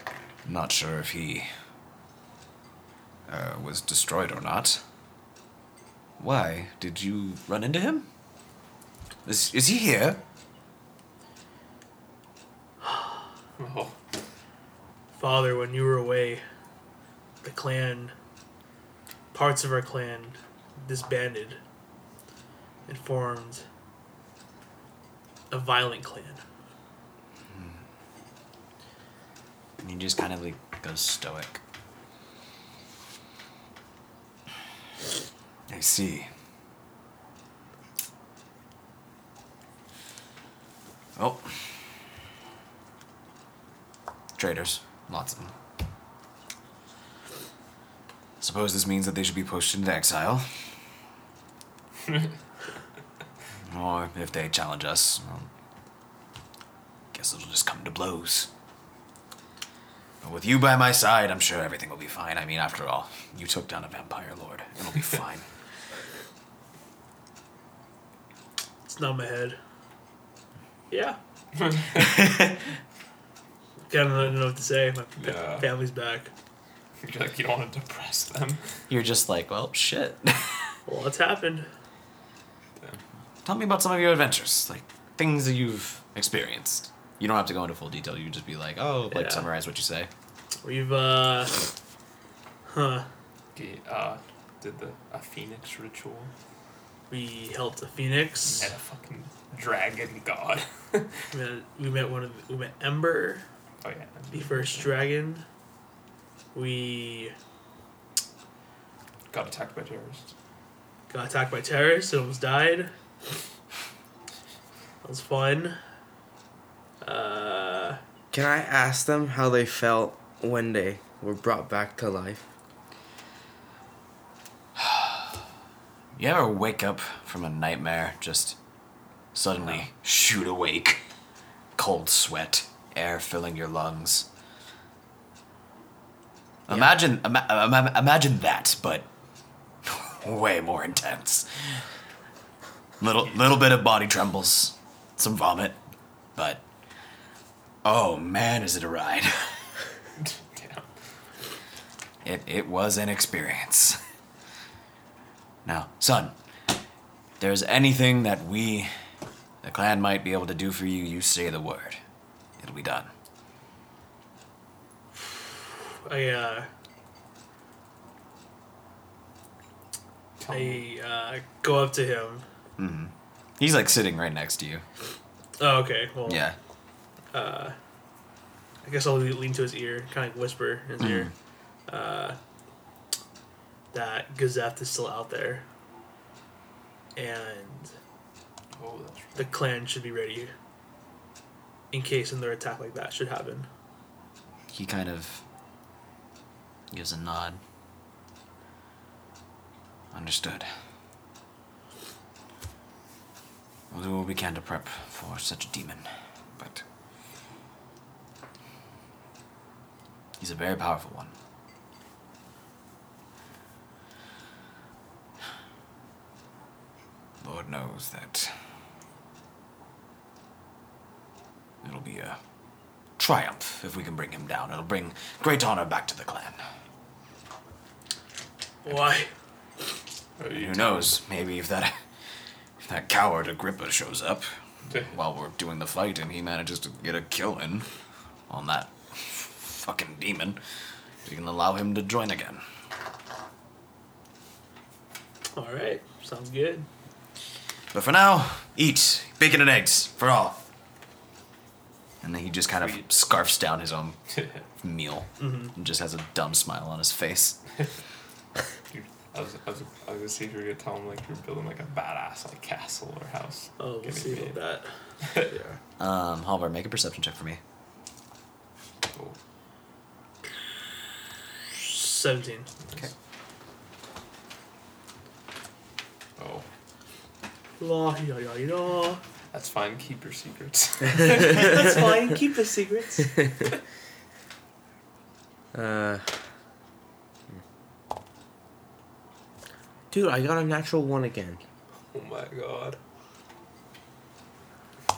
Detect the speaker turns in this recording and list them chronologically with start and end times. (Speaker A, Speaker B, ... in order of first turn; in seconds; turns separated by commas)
Speaker A: 0.4-1.5, Speaker A: 3.3-4.8, Speaker A: 6.2-8.1, Speaker A: 9.2-10.2, Speaker B: 12.8-13.2, Speaker C: 13.6-13.9, Speaker B: 15.2-16.4, Speaker B: 17.4-18.1, Speaker B: 19.3-21.6, Speaker B: 22.9-23.6, Speaker B: 25.5-26.4, Speaker A: 27.5-27.8, Speaker A: 29.8-31.6, Speaker A: 35.7-36.3, Speaker A: 41.2-41.7, Speaker A: 44.4-45.5, Speaker A: 48.4-50.5, Speaker A: 53.7-55.5, Speaker A: 57.1-58.5, Speaker A: 60.2-65.4, Speaker B: 68.8-69.6, Speaker B: 70.9-71.2, Speaker C: 71.6-72.1, Speaker A: 72.0-72.6, Speaker B: 73.9-76.3, Speaker C: 75.2-75.7, Speaker C: 77.0-78.8, Speaker A: 78.9-80.7, Speaker B: 80.8-81.7, Speaker A: 83.4-90.1, Speaker B: 89.1-89.5, Speaker B: 90.6-91.6, Speaker B: 92.7-93.1, Speaker C: 93.5-96.3, Speaker B: 97.1-98.7, Speaker C: 98.5-101.2, Speaker B: 101.3-103.4, Speaker C: 103.8-105.0, Speaker B: 104.3-105.4, Speaker B: 106.5-107.3, Speaker C: 109.3-110.3, Speaker B: 111.1-112.9, Speaker B: 115.0-115.8, Speaker B: 117.0-118.0, Speaker D: 118.3-122.5, Speaker A: 124.8-125.3, Speaker A: 126.2-128.6, Speaker A: 129.3-131.0, Speaker A: 131.8-134.3, Speaker A: 136.7-139.1, Speaker A: 139.8-141.8, Speaker A: 143.0-145.8, Speaker A: 146.3-146.6, Speaker A: 147.8-149.5, Speaker C: 150.2-150.9, Speaker A: 152.2-154.0, Speaker A: 155.6-156.3, Speaker A: 157.4-158.9, Speaker A: 159.6-162.0, Speaker A: 162.6-163.1, Speaker B: 165.1-166.7, Speaker C: 170.4-170.9, Speaker B: 170.5-172.4, Speaker A: 172.8-174.8, Speaker B: 175.6-176.4, Speaker A: 176.2-176.6, Speaker B: 177.3-177.7, Speaker B: 178.8-181.3, Speaker A: 181.0-181.3, Speaker B: 181.9-182.4, Speaker B: 183.9-185.6, Speaker B: 187.2-187.9, Speaker C: 188.7-189.5, Speaker B: 189.3-190.5, Speaker B: 191.9-193.7, Speaker A: 194.7-195.4, Speaker A: 196.9-197.6, Speaker A: 200.1-200.7, Speaker A: 203.9-206.8, Speaker A: 210.4-211.3, Speaker A: 217.4-218.5, Speaker A: 221.8-222.4, Speaker A: 223.2-226.6, Speaker B: 228.8-229.3, Speaker C: 230.4-231.1, Speaker A: 230.5-232.0, Speaker A: 232.8-237.9, Speaker A: 238.5-240.6, Speaker A: 241.2-242.6, Speaker B: 245.5-246.9, Speaker A: 247.9-250.6, Speaker A: 252.2-254.2, Speaker C: 252.8-253.0, Speaker C: 254.3-254.6, Speaker A: 254.8-257.6, Speaker B: 255.4-255.7, Speaker C: 258.9-264.6, Speaker B: 263.8-265.8, Speaker C: 265.2-265.5, Speaker A: 266.0-267.6, Speaker C: 269.1-269.4, Speaker B: 271.7-272.7, Speaker C: 276.4-276.6, Speaker B: 277.8-279.2, Speaker C: 279.5-281.8, Speaker B: 281.2-283.4, Speaker D: 285.7-286.3, Speaker D: 290.1-291.6, Speaker C: 292.1-293.0